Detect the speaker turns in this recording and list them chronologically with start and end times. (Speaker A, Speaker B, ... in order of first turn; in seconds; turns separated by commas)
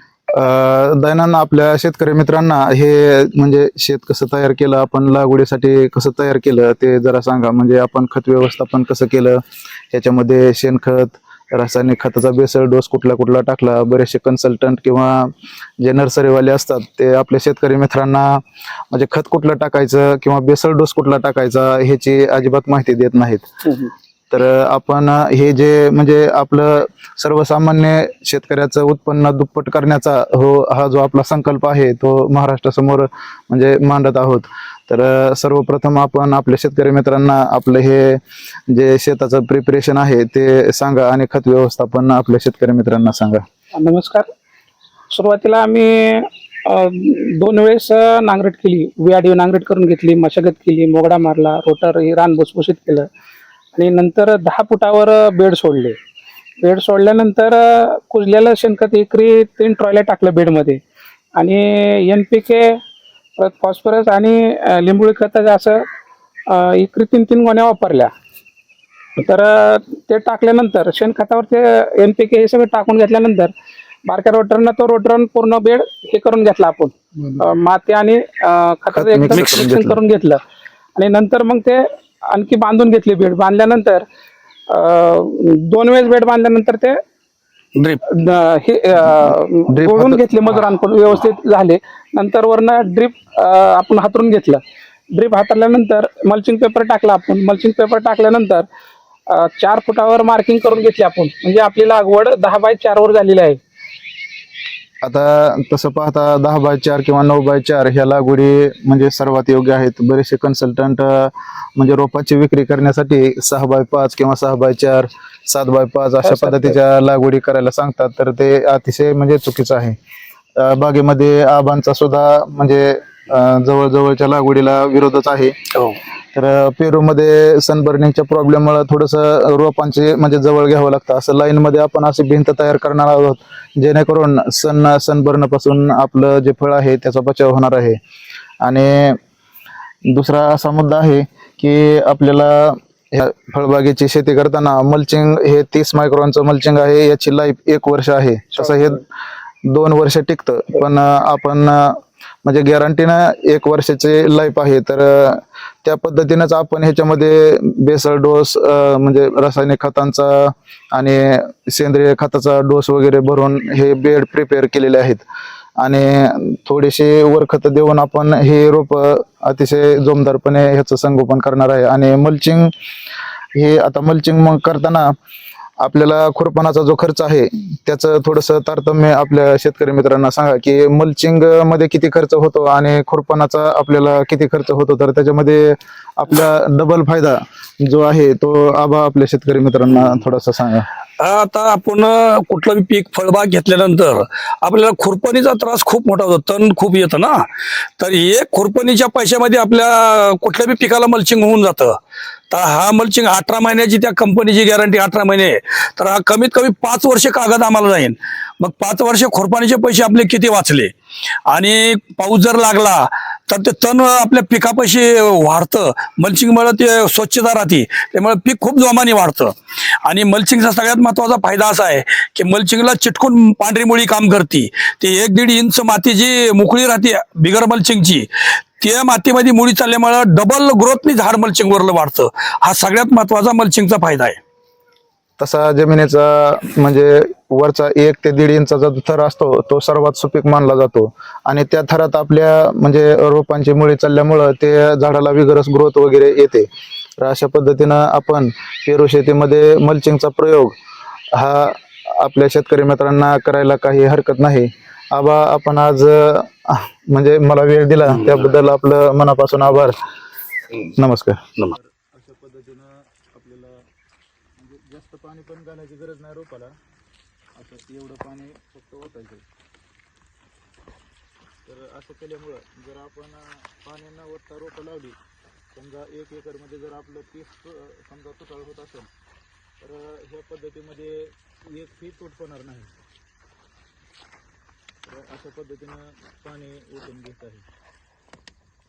Speaker A: 0.3-23.5, Speaker A: 24.3-43.4, Speaker B: 43.7-44.3, Speaker B: 45.1-53.1, Speaker B: 53.8-56.0, Speaker B: 56.6-60.8, Speaker B: 61.4-62.8, Speaker B: 63.4-65.8, Speaker B: 66.5-68.1, Speaker B: 69.2-73.5, Speaker B: 74.1-80.4, Speaker A: 78.9-80.0, Speaker B: 81.0-84.0, Speaker B: 84.7-87.0, Speaker C: 87.8-88.0, Speaker B: 88.1-94.6, Speaker A: 89.0-90.2, Speaker B: 95.1-98.7, Speaker B: 99.3-103.6, Speaker A: 105.0-120.0, Speaker B: 116.2-116.7, Speaker A: 120.6-125.5, Speaker A: 126.3-138.0, Speaker A: 138.6-139.2, Speaker A: 140.1-149.0, Speaker A: 149.7-165.2, Speaker A: 165.8-172.7, Speaker A: 173.6-175.2, Speaker A: 175.8-190.9, Speaker C: 191.2-197.5, Speaker C: 198.0-202.0, Speaker C: 202.5-210.9, Speaker C: 211.5-228.3, Speaker C: 228.8-234.4, Speaker A: 235.4-250.8, Speaker A: 251.3-260.0, Speaker A: 260.9-263.9, Speaker A: 264.6-266.8, Speaker A: 267.6-269.4, Speaker A: 271.7-275.2, Speaker A: 275.7-279.1, Speaker A: 279.8-282.9, Speaker A: 285.1-287.7